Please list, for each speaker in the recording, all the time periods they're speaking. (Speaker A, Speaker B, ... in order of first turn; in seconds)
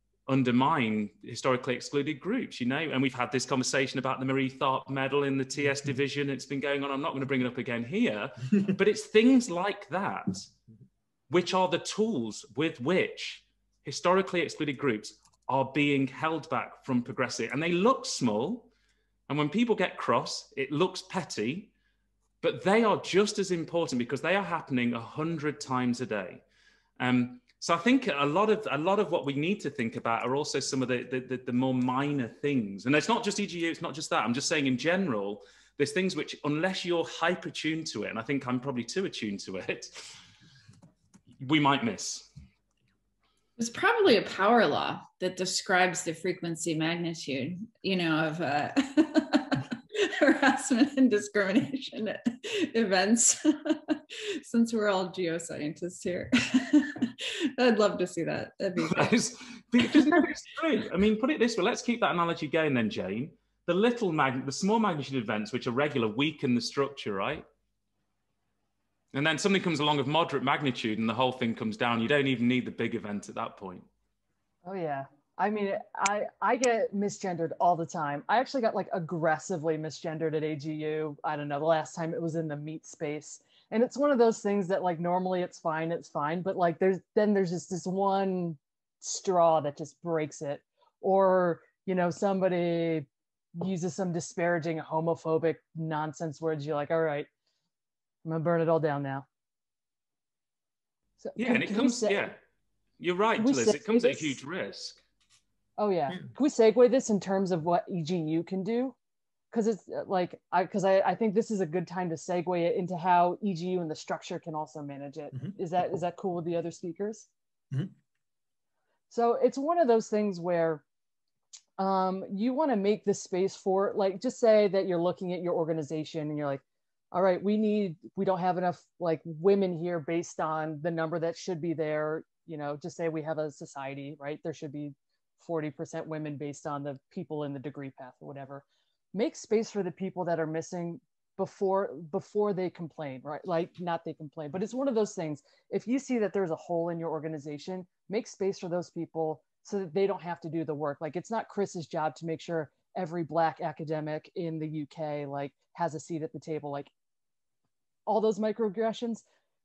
Speaker A: 0.3-10.5, 11.3-18.7, 19.3-21.7, 22.4-26.4, 27.0-40.2, 41.4-42.2, 58.8-67.4, 69.1-73.8, 101.4-102.3, 103.0-105.0
Speaker B: 43.6-59.1, 59.8-60.3
Speaker C: 74.6-97.3, 98.2-99.2, 101.2-102.3, 103.4-104.4, 105.8-108.9, 109.5-117.3, 119.1-120.8, 121.8-156.9, 158.1-159.2